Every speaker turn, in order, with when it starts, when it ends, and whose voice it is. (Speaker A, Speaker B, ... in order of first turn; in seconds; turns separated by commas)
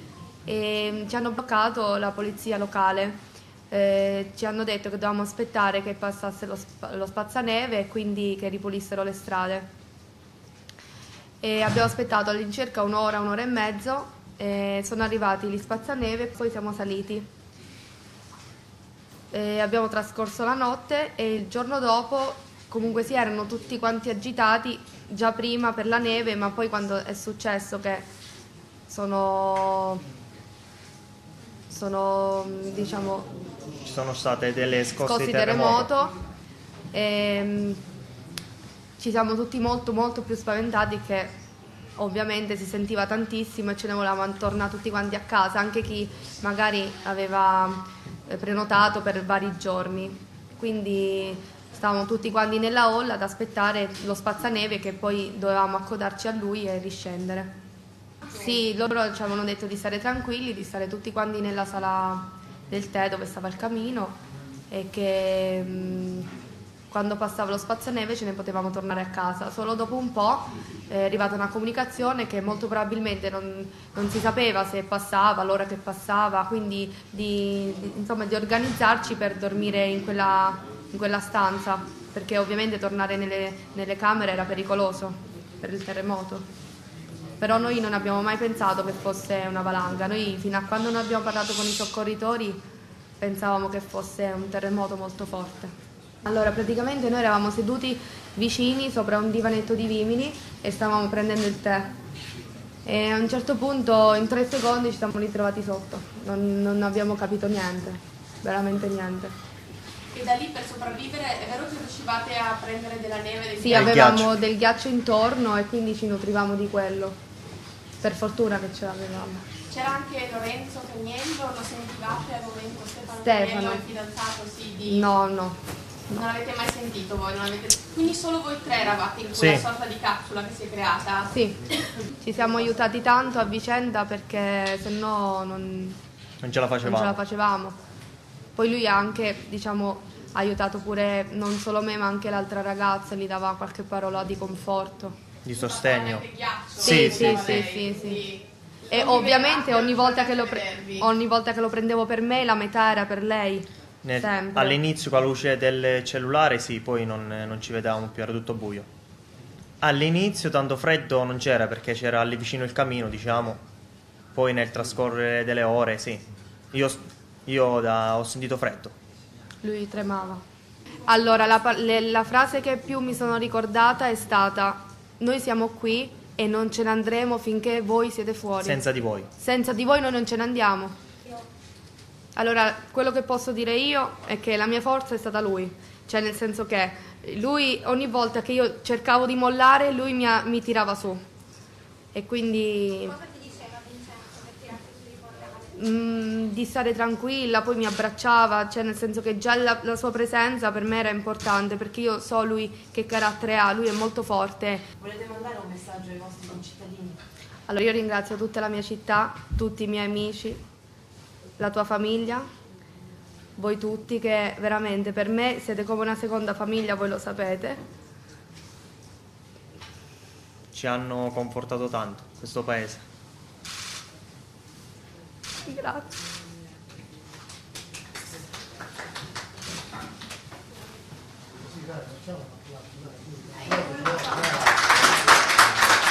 Speaker A: 0.4-9.7, Speaker A: 11.4-17.3, Speaker A: 19.3-28.1, Speaker A: 28.9-30.0, Speaker A: 31.7-33.3, Speaker B: 33.8-35.9, Speaker A: 35.0-36.1, Speaker A: 36.9-37.8, Speaker A: 39.0-41.3, Speaker A: 42.0-57.5, Speaker A: 58.2-64.2, Speaker A: 64.7-66.3, Speaker A: 66.9-86.5, Speaker A: 87.4-92.6, Speaker A: 93.2-95.7, Speaker A: 96.2-101.9, Speaker A: 102.8-109.3, Speaker C: 110.1-113.9, Speaker A: 113.6-117.2, Speaker B: 113.7-114.3, Speaker A: 118.0-119.4, Speaker C: 119.7-125.1, Speaker A: 123.2-123.8, Speaker A: 124.8-125.6, Speaker C: 126.1-131.3, Speaker B: 129.4-129.6, Speaker A: 131.3-131.6, Speaker A: 132.2-136.0, Speaker B: 136.4-137.2, Speaker A: 136.8-137.8, Speaker A: 138.6-145.2, Speaker B: 145.4-147.7, Speaker C: 145.6-151.1, Speaker A: 146.8-148.2, Speaker A: 148.9-154.8, Speaker B: 154.0-158.9, Speaker B: 159.8-163.6, Speaker B: 164.3-168.9, Speaker A: 169.6-170.4, Speaker A: 171.1-178.8, Speaker B: 178.6-179.3, Speaker A: 179.4-181.0, Speaker A: 182.3-191.2, Speaker A: 192.1-193.2, Speaker D: 193.2-195.7, Speaker A: 195.7-204.8, Speaker E: 205.0-207.2, Speaker A: 207.7-210.6, Speaker A: 211.6-212.4, Speaker A: 213.6-217.8, Speaker B: 220.7-223.0, Speaker A: 225.7-226.1, Speaker C: 233.6-234.4